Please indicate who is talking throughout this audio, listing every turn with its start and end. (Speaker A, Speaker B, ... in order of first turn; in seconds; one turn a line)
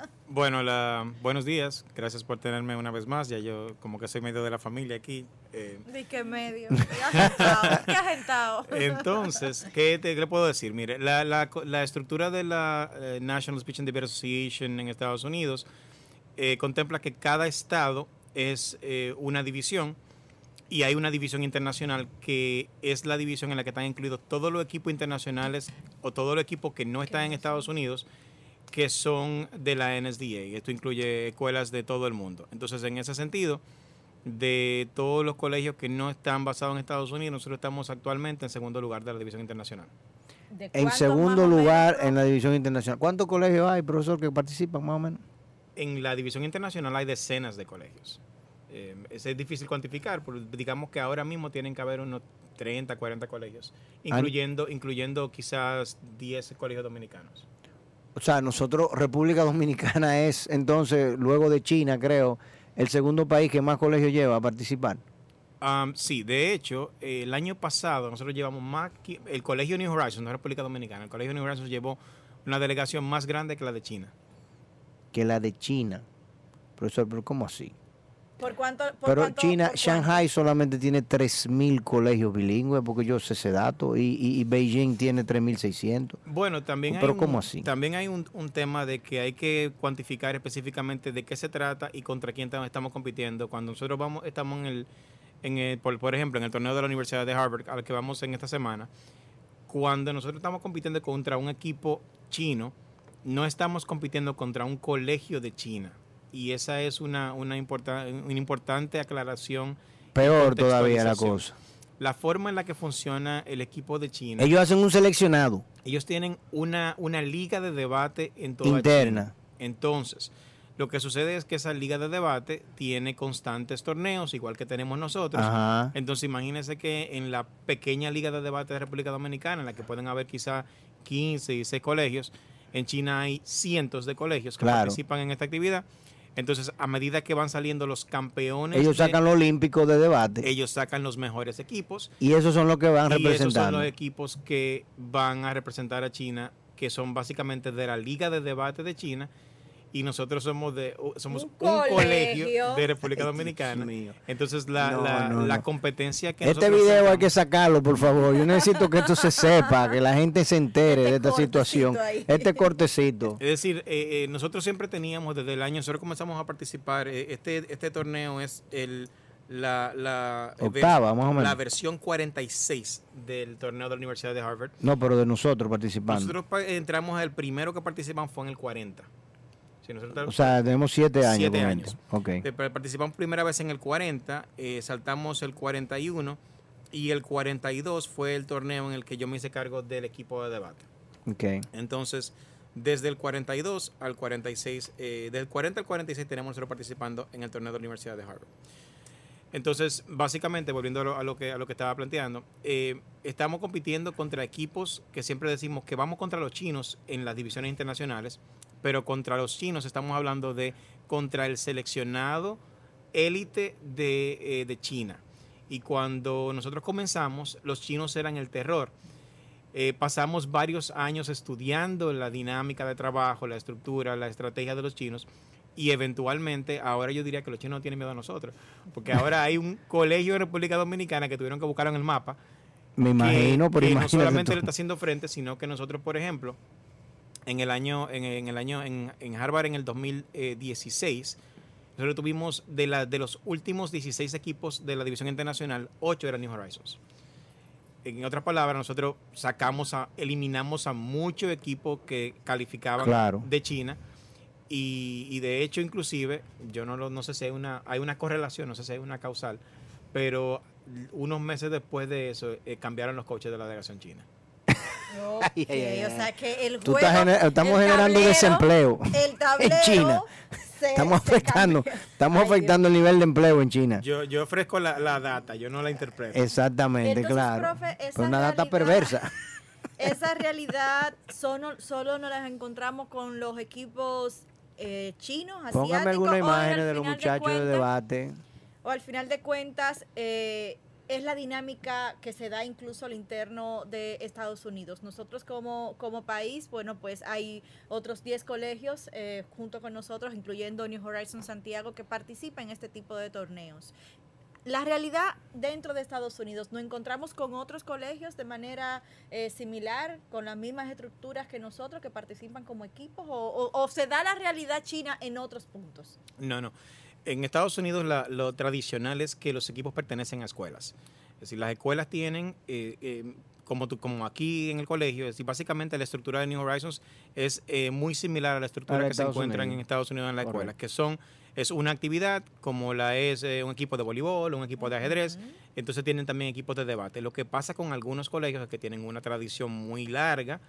Speaker A: 0.3-5.9
Speaker B: 5.9-9.3
Speaker A: 7.2-8.0
Speaker A: 8.7-15.7
Speaker A: 16.4-20.0
Speaker A: 20.7-28.1
Speaker A: 28.7-33.6
Speaker A: 34.2-39.9
Speaker B: 40.5-42.1
Speaker C: 40.8-45.2
Speaker A: 45.8-57.5
Speaker C: 58.2-65.0
Speaker A: 65.6-74.1
Speaker C: 75.1-76.1
Speaker C: 76.8-77.8
Speaker B: 78.4-80.2
Speaker C: 79.1-86.2
Speaker A: 86.3-94.9
Speaker C: 86.9-87.7
Speaker A: 95.4-98.9
Speaker A: 99.7-111.4
Speaker C: 110.2-111.6
Speaker A: 112.0-114.5
Speaker C: 114.4-115.7
Speaker A: 115.8-135.8
Speaker C: 118.6-119.3
Speaker C: 125.3-126.0
Speaker C: 134.6-135.0
Speaker A: 136.4-139.2
Speaker C: 138.7-140.5
Speaker A: 140.4-142.1
Speaker C: 142.2-143.9
Speaker A: 143.1-149.3
Speaker A: 149.9-157.3
Speaker B: 151.3-152.9
Speaker C: 153.2-154.2
Speaker C: 154.8-155.6
Speaker C: 156.4-163.4
Speaker B: 159.0-159.4
Speaker B: 160.9-162.7
Speaker A: 163.4-174.7
Speaker C: 170.6-171.6
Speaker C: 174.8-176.3
Speaker A: 176.1-179.1
Speaker A: 179.8-180.6
Speaker C: 180.2-182.4
Speaker A: 181.2-186.4
Speaker A: 186.9-190.9
Speaker C: 191.3-191.7
Speaker A: 191.7-198.5
Speaker A: 199.5-212.6
Speaker A: 213.1-218.9
Speaker A: 219.7-232.4
Speaker C: 233.0-234.7
Speaker A: 233.2-236.6
Speaker A: 237.5-241.4
Speaker A: 242.0-247.0
Speaker A: 248.0-254.0
Speaker C: 253.0-253.5
Speaker A: 254.7-259.6
Speaker A: 260.1-264.3
Speaker C: 264.7-266.3
Speaker B: 265.1-272.8
Speaker C: 266.8-270.3
Speaker C: 270.9-274.0
Speaker A: 274.0-276.4
Speaker C: 276.3-279.3
Speaker B: 277.0-279.2
Speaker B: 280.0-287.9
Speaker C: 285.7-288.4
Speaker B: 288.8-303.9
Speaker B: 304.7-316.2
Speaker A: 316.4-316.7
Speaker A: 317.2-340.6
Speaker C: 328.9-329.8
Speaker C: 330.4-330.7
Speaker B: 334.8-335.5